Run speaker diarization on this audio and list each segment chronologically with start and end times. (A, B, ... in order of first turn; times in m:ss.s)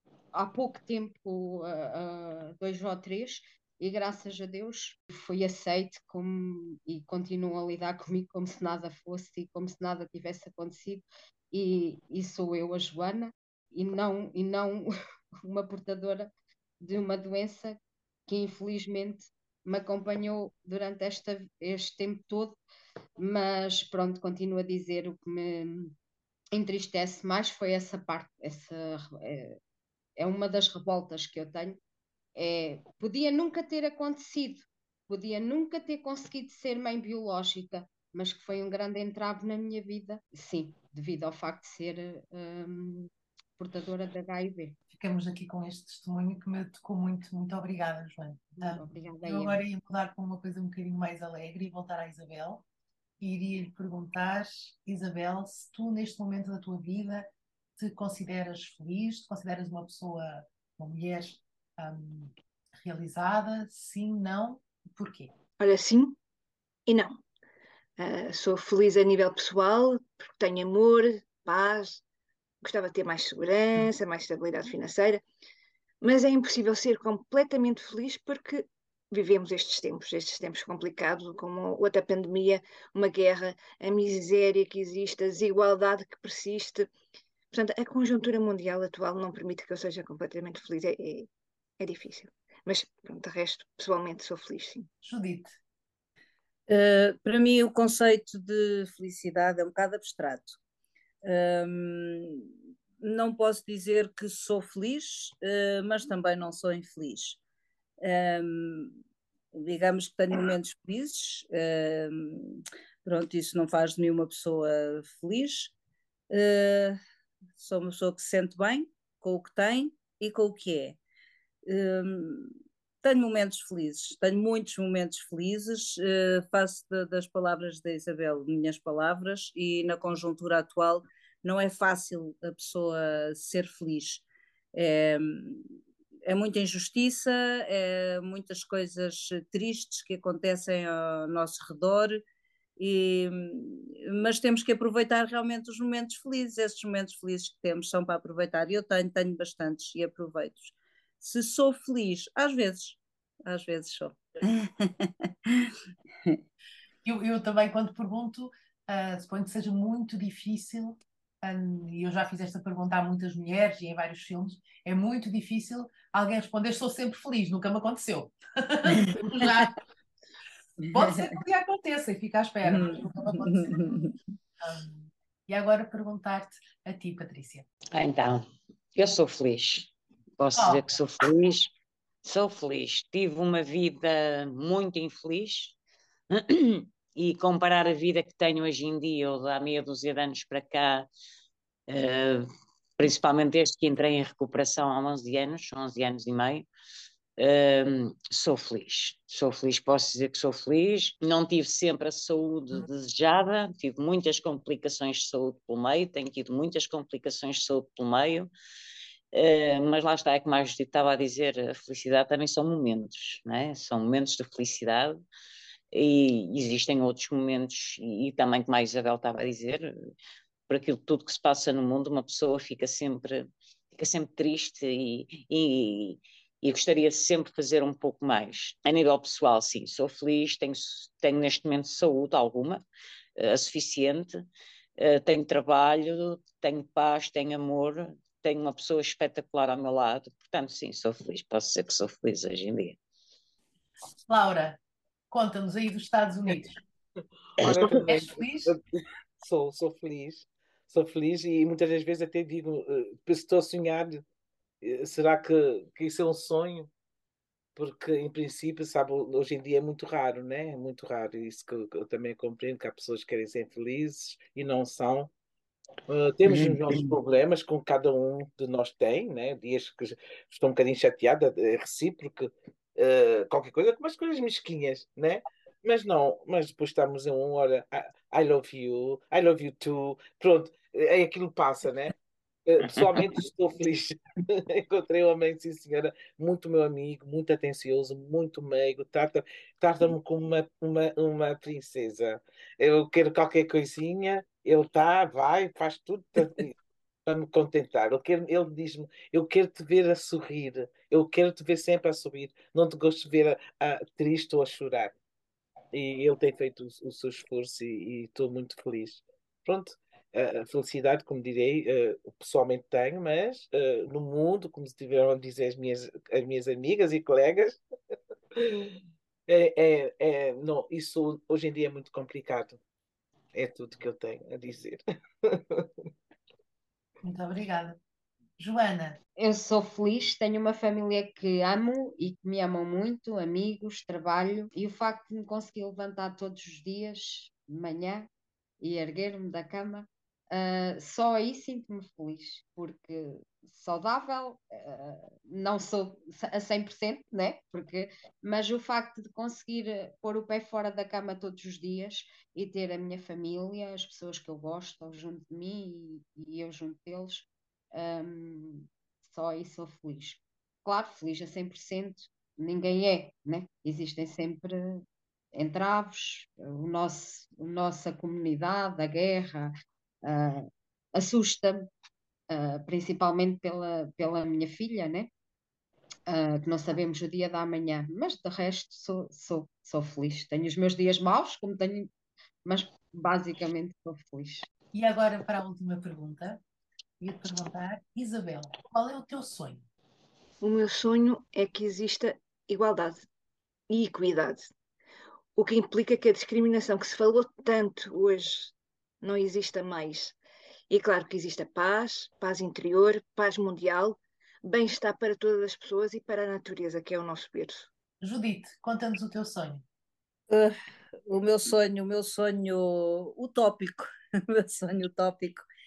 0:00.3-0:14.9 A
0:15.4-0:22.6 A
0:23.2-0:25.9 A
0:26.5-0:29.6 A
0:30.2-0:31.8 A
0:32.4-0:44.8 A
0:44.9-0:52.6 B
0:48.6-0:49.6 A
0:53.2-1:05.3 B
1:05.6-1:06.2 C
1:06.8-1:07.2 C
1:08.0-1:12.0 C
1:12.6-1:15.2 C
1:16.0-1:26.9 C
1:27.5-1:31.3 C
1:31.8-1:34.9 C
1:35.0-1:35.6 B
1:36.7-1:40.6 D
1:41.2-1:47.4 D
1:48.0-1:49.0 D
1:49.5-1:55.7 D
1:56.3-1:57.0 D
1:57.6-2:01.0 D
2:01.6-2:15.6 D
2:16.2-2:22.2 D
2:22.8-2:35.7 D
2:37.0-2:49.8 B
2:48.9-2:49.7 D
2:50.8-2:51.3 D
2:50.9-2:53.8 B
2:52.6-2:54.1 D
2:54.6-2:57.6 B
2:57.9-3:01.7 E
3:00.5-3:00.8 B
3:02.2-3:05.7 E
3:06.3-3:11.1 E
3:11.9-3:16.6 E
3:17.4-3:28.5 E
3:29.3-3:35.2 E
3:35.9-3:39.9 E
3:40.7-3:52.8 E
3:53.4-3:54.4 E
3:55.0-4:03.0 E
4:04.2-4:04.8 B
4:05.3-4:06.8 B
4:07.6-4:08.8 F
4:07.6-4:08.0 E
4:08.1-4:08.7 B
4:09.4-4:14.2 F
4:14.8-4:16.9 F
4:17.7-4:25.3 F
4:26.1-4:42.2 F
4:26.5-4:27.1 E
4:42.7-5:05.2 F
5:05.9-5:17.8 F
5:18.5-5:22.8 F
5:23.5-5:25.9 F
5:27.2-5:28.0 B
5:28.6-5:29.2 B
5:29.4-5:38.3 A
5:38.8-6:09.7 A
6:10.2-6:11.9 A
6:12.5-6:15.3 A
6:16.3-6:22.1 A
6:22.6-6:24.7 A
6:24.9-6:26.6 B
6:27.2-6:29.8 B
6:30.6-6:33.2 C
6:33.9-6:34.7 C
6:35.6-6:40.4 C
6:40.9-6:47.9 C
6:48.2-6:49.8 B
6:50.5-6:50.7 D
6:51.3-6:55.6 D